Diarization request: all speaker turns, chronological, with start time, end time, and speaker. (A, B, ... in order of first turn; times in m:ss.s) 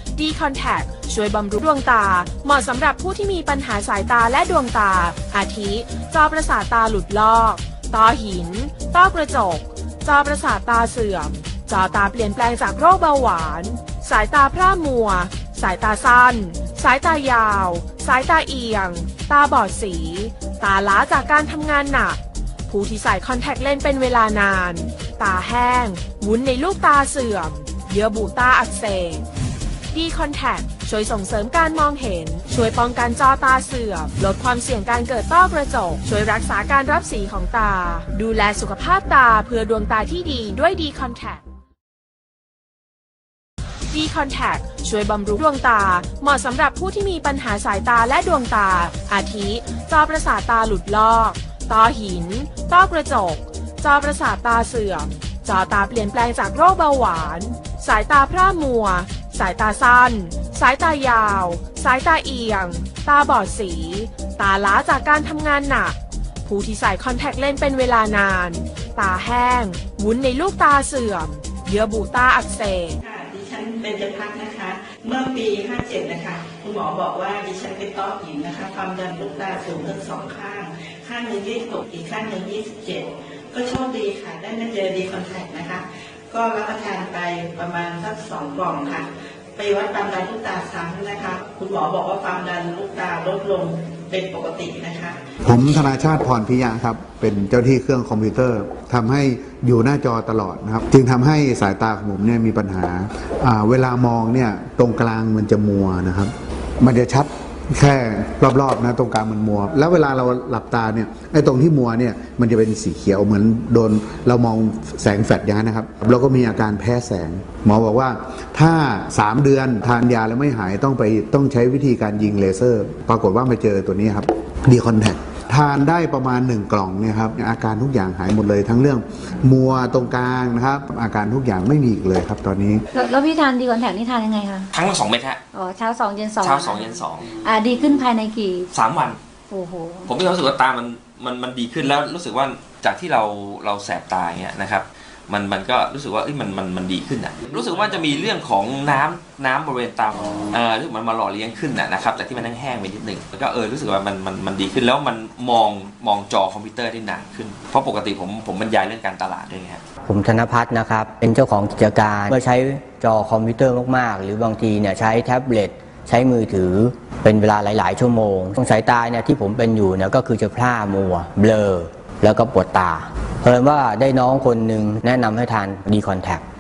0:00.2-0:29.3 A
0:29.9-0:41.4 A
0:43.9-1:13.0 A
1:13.0-1:35.3 B
1:35.4-2:12.8 C
2:12.9-2:14.7 D
2:14.7-2:15.4 E
2:15.5-2:18.7 D
2:16.4-2:17.4 E
2:18.7-2:19.2 E
2:19.5-2:20.1 D
2:20.1-2:39.8 E
2:40.0-2:56.4 F